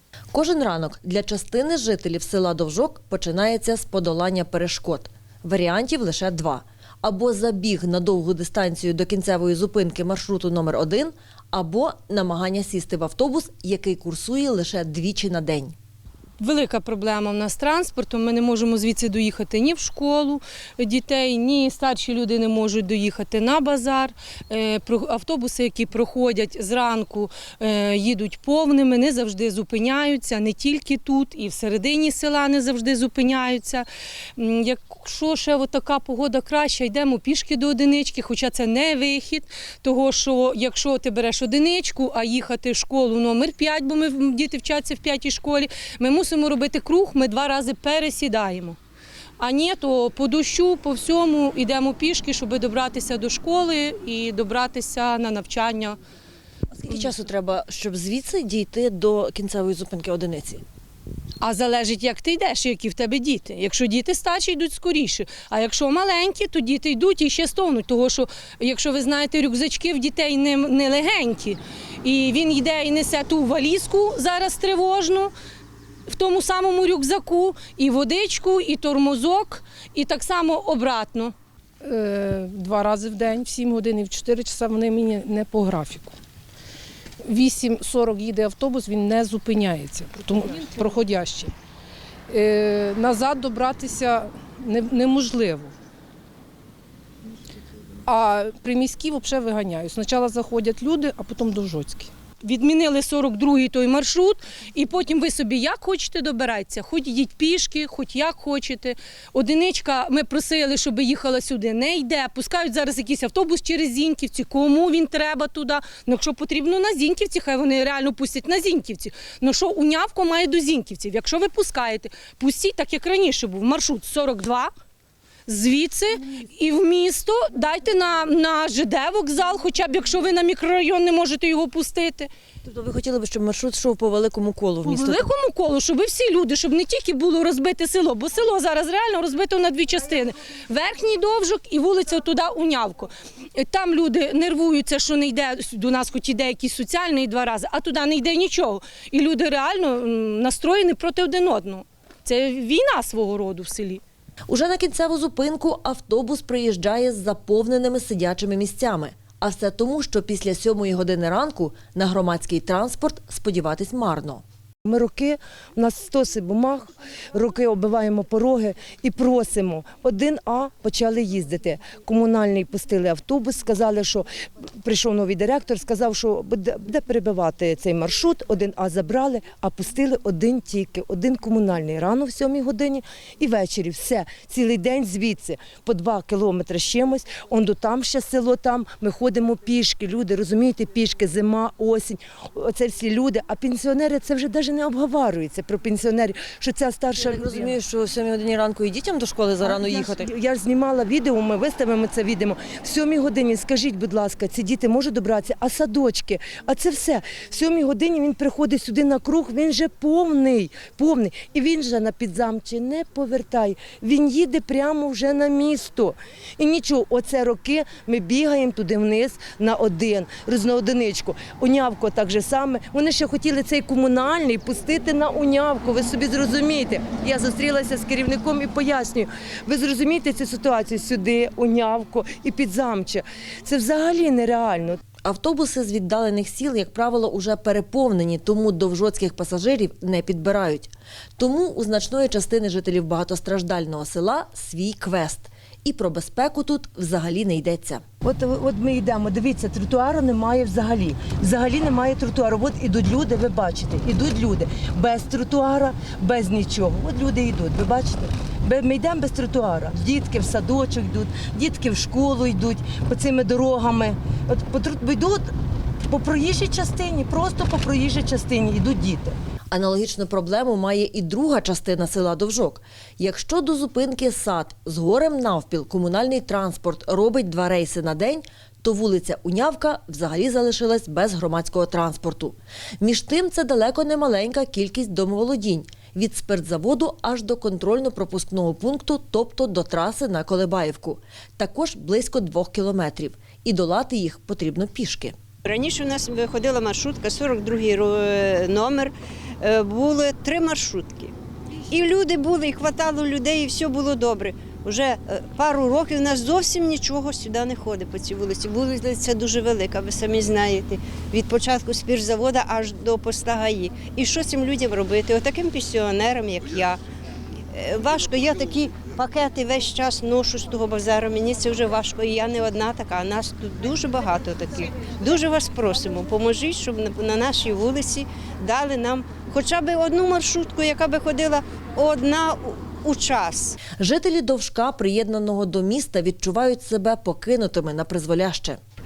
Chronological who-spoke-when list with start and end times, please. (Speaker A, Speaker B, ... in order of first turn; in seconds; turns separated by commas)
Speaker A: 0.3-15.7, Speaker B: 16.4-48.8, Speaker B: 49.4-56.0, Speaker A: 56.7-60.6, Speaker B: 61.4-75.3, Speaker B: 76.1-81.3, Speaker C: 81.8-86.2, Speaker C: 87.2-91.5, Speaker C: 92.3-95.7, Speaker C: 98.0-102.1, Speaker B: 102.4-124.7, Speaker B: 125.5-132.3, Speaker A: 132.6-135.3, Speaker B: 134.8-154.0, Speaker A: 154.5-164.4, Speaker D: 164.8-174.2, Speaker D: 174.8-197.8, Speaker A: 197.2-200.3, Speaker D: 199.6-235.0, Speaker A: 235.2-248.0, Speaker D: 248.2-265.5, Speaker D: 266.1-269.4, Speaker A: 269.7-295.3, Speaker E: 295.6-301.3, Speaker E: 301.9-317.0, Speaker E: 317.7-333.8, Speaker A: 333.9-338.8